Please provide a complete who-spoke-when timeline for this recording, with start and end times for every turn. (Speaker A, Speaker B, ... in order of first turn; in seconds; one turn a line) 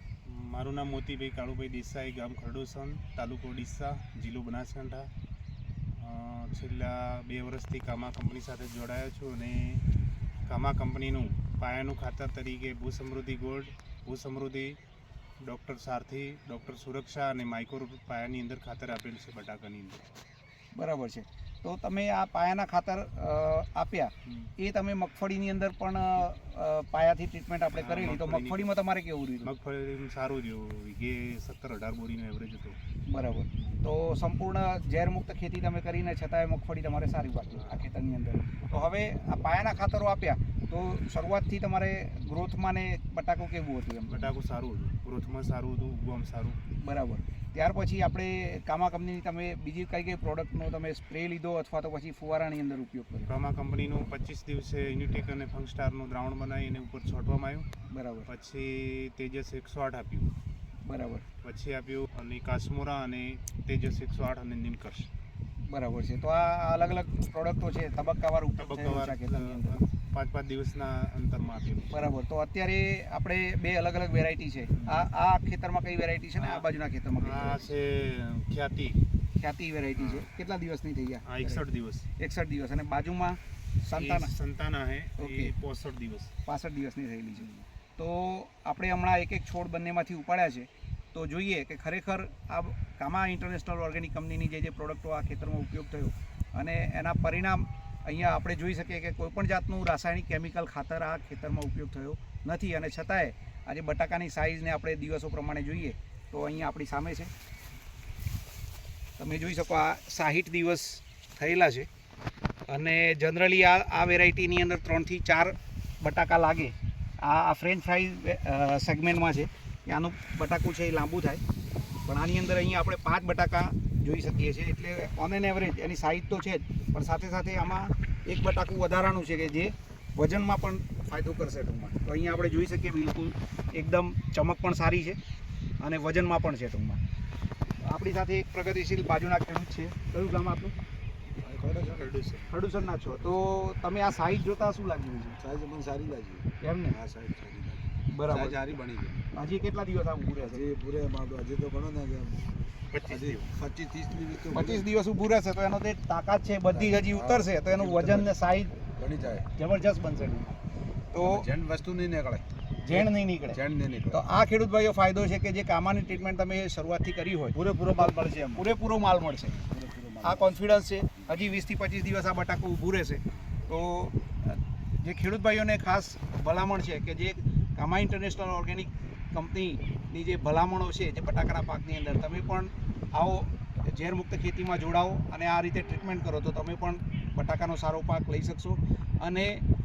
Speaker A: 0.3-5.1
Speaker A: 6.0-9.8
Speaker A: 10.5-14.8
Speaker A: 15.4-20.1
Speaker B: 20.8-29.5
Speaker A: 24.3-24.5
Speaker A: 27.8-28.7
Speaker A: 29.4-32.8
Speaker B: 33.1-44.3
Speaker A: 37.6-37.8
Speaker A: 44.1-46.6
Speaker B: 46.8-53.3
Speaker A: 53.3-57.7
Speaker B: 57.9-58.3
Speaker A: 58.3-60.3
Speaker B: 60.8-61.2
Speaker A: 61.4-65.1
Speaker B: 65.6-69.8
Speaker A: 68.6-72.1
Speaker B: 71.9-77.7
Speaker A: 74.8-75.0
Speaker A: 76.4-76.7
Speaker A: 77.2-79.0
Speaker B: 79.4-81.6
Speaker A: 80.0-80.3
Speaker A: 81.2-82.1
Speaker B: 82.2-84.3
Speaker A: 83.9-86.3
Speaker B: 85.2-85.5
Speaker B: 86.5-107.3
Speaker B: 109.2-111.9
Speaker B: 112.7-121.4
Speaker B: 122.0-135.2
Speaker B: 135.8-137.0
Speaker B: 137.8-140.8
Speaker C: 141.4-142.2
Speaker A: 141.8-142.4
Speaker B: 142.5-145.4
Speaker C: 145.4-149.2
Speaker B: 146.6-147.0
Speaker B: 148.1-148.6
Speaker B: 149.3-150.7
Speaker C: 150.4-152.6
Speaker A: 152.9-153.5
Speaker C: 153.1-154.9
Speaker B: 154.5-158.8
Speaker C: 156.7-158.4
Speaker C: 158.9-159.5
Speaker B: 159.5-160.6
Speaker B: 161.1-161.5
Speaker C: 161.2-164.2
Speaker B: 162.8-169.6
Speaker C: 167.5-168.7
Speaker C: 169.5-170.6
Speaker B: 170.2-189.6
Speaker C: 171.2-171.4